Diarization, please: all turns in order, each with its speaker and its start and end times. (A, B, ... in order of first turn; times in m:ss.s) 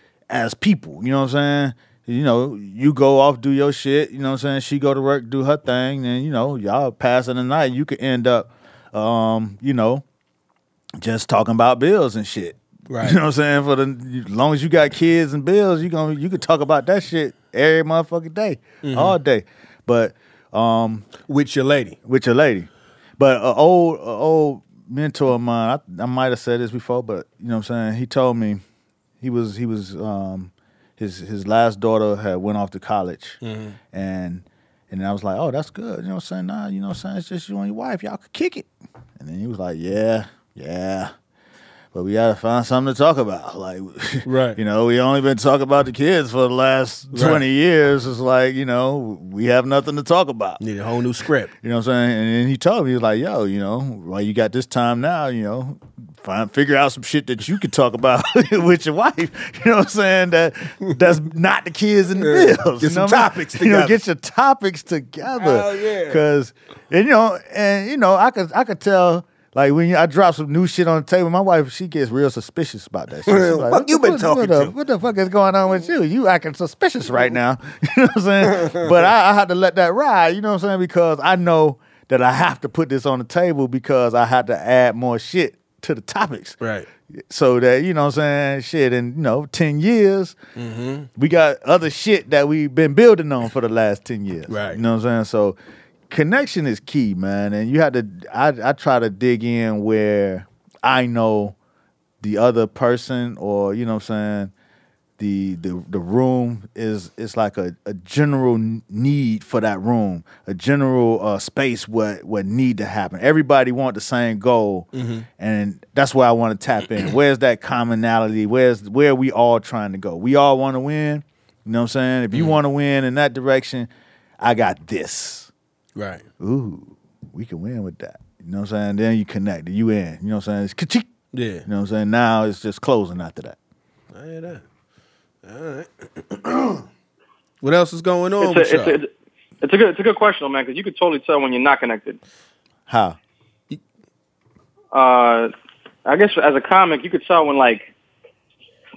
0:00.3-0:10.0 A
0:11.0-0:21.1 A
0:12.9-0:13.2 B
0:18.8-0:19.2 B
0:21.3-0:22.0 B
0:22.0-0:28.6 A
0:29.2-0:33.4 A
0:33.4-0:33.8 B
0:33.9-0:41.1 A
0:41.9-0:50.6 A
0:44.2-0:44.6 B
0:47.1-0:47.4 B
0:50.6-0:51.5 B
0:51.6-1:26.6 A
1:02.2-1:04.0 B
1:05.3-1:06.2 B
1:13.3-1:14.7 B
1:18.5-1:18.8 B
1:26.6-1:26.9 B
1:27.2-1:30.4 A
1:30.6-1:31.1 B
1:31.2-1:35.6 A
1:34.5-1:34.8 B
1:36.1-1:41.6 A
1:42.2-1:44.5 A
1:45.2-2:03.9 A
1:54.9-1:55.3 B
2:02.3-2:02.6 B
2:04.4-2:05.5 A
2:06.0-2:06.2 B
2:06.4-2:11.1 A
2:11.3-2:11.7 B
2:11.6-2:13.6 A
2:14.1-2:14.6 B
2:15.4-2:16.8 B
2:17.6-2:19.0 B
2:18.4-2:19.1 C
2:19.6-2:22.2 C
2:22.9-2:23.2 A
2:24.9-2:25.5 C
2:26.1-2:27.9 C